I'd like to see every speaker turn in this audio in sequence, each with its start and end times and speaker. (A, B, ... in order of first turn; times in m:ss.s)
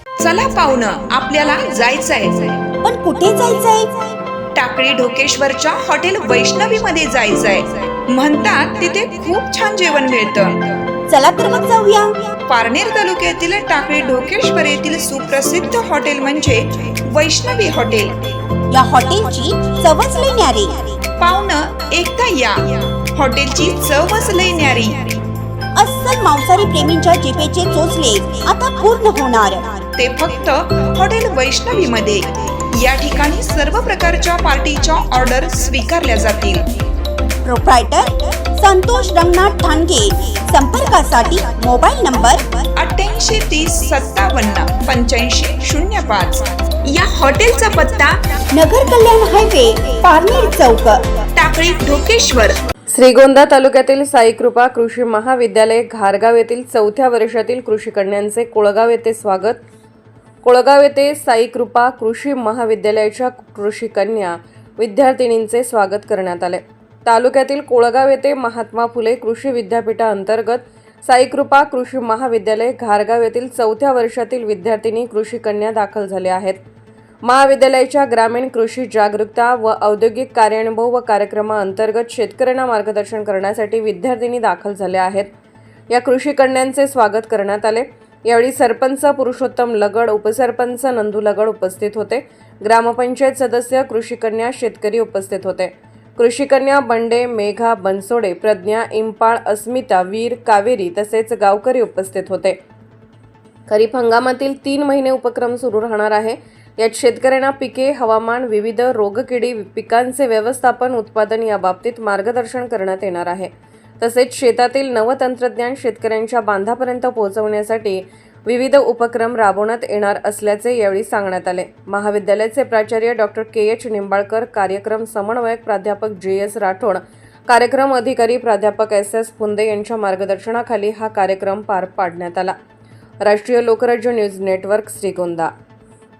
0:00.2-0:02.6 A
0:02.8-0:04.0 B
0:04.6-0:10.7 A
0:11.1-0:12.2 B
0:12.5-0:18.4 A
0:18.7-0:20.9 B
0:21.2-0:25.2 A
0:25.8-0:29.8 B
0:30.0-0:36.7 A
0:37.4-0:42.4 B
0:42.8-0:48.2 A
0:48.5-0:51.1 B
0:51.4-0:52.6 A
0:52.9-0:59.6 C
1:00.4-1:16.6 C
1:17.2-1:25.3 C
1:25.9-1:42.6 C
1:43.7-2:12.6 C
2:13.2-2:15.5 C